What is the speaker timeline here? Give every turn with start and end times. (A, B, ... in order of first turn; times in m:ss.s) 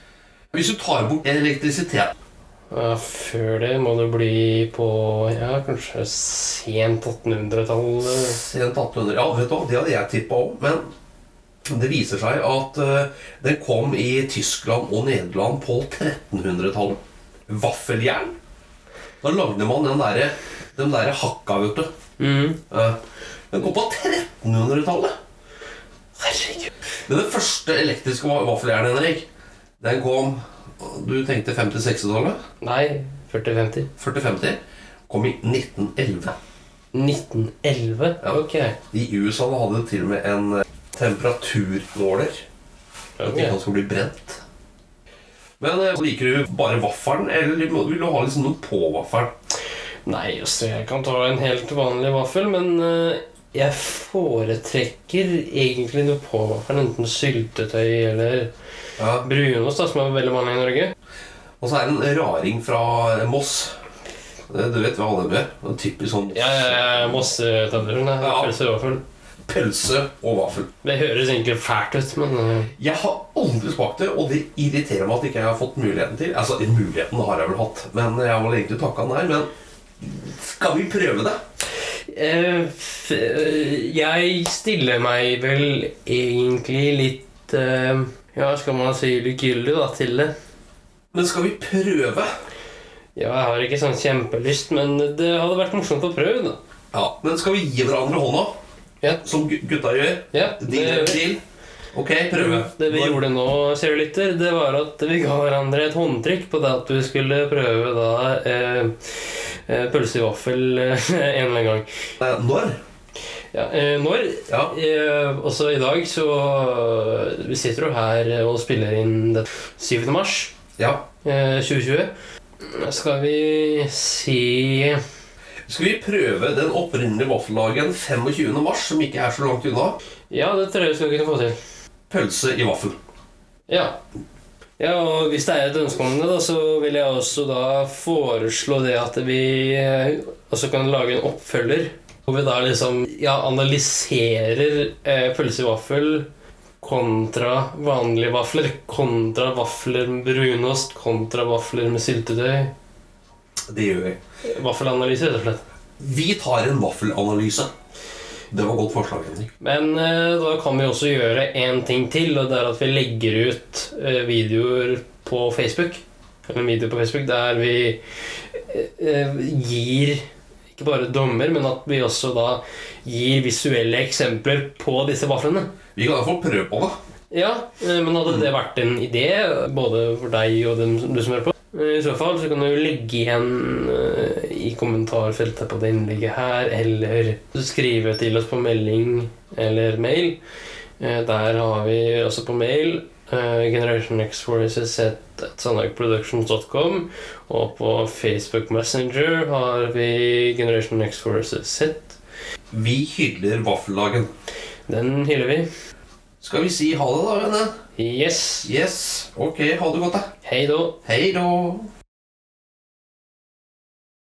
0:00.5-0:02.1 A
0:02.7-0:08.4 B
0:08.0-0:10.9 A
0:11.6-0:18.3 A
0:19.2-0:21.9 A
0:22.2-0:22.6 B
0:22.7-0:23.0 A
0:23.5-0:25.2 A
0:26.2-0:26.7 B
0:27.1-0:29.3 A
0:29.8-0:32.4 A
0:32.6-0:33.9 B
0:34.0-0:36.4 A
0:36.9-0:38.8 B
0:38.2-0:42.4 A
0:43.2-0:43.6 B
0:43.2-0:44.4 A
0:45.6-0:49.3 A
0:50.1-0:58.5 B
0:59.0-0:59.3 A
0:59.2-1:00.9 B
1:01.6-1:03.7 A
1:04.5-1:07.2 A
1:06.3-1:09.0 B
1:08.2-1:08.6 A
1:09.4-1:10.7 A
1:10.8-1:12.7 B
1:12.8-1:21.4 A
1:22.1-1:30.3 B
1:31.1-1:32.3 A
1:33.2-1:36.6 B
1:36.9-1:38.6 A
1:39.2-1:41.4 A
1:40.3-1:41.2 B
1:41.9-1:43.2 A
1:42.3-1:51.9 B
1:52.2-1:52.8 A
1:53.5-2:00.5 B
1:54.5-1:54.8 A
2:00.8-2:01.1 A
2:01.2-2:05.0 B
2:05.7-2:10.0 A
2:10.3-2:11.6 B
2:12.1-2:13.0 A
2:13.7-2:14.0 B
2:14.8-2:26.3 B
2:26.8-2:32.7 B
2:33.7-2:34.2 A
2:34.4-2:35.6 B
2:36.0-2:37.7 A
2:38.5-2:39.5 A
2:39.6-2:48.0 B
2:48.5-2:50.2 B
2:50.7-2:55.7 B
2:56.0-2:57.0 A
2:57.3-3:10.4 B
3:11.0-3:22.2 B
3:22.7-3:24.3 A
3:24.9-3:25.7 B
3:26.4-3:27.8 A
3:28.0-3:28.7 B
3:28.6-3:30.3 A
3:30.4-3:31.0 B
3:31.0-3:31.9 A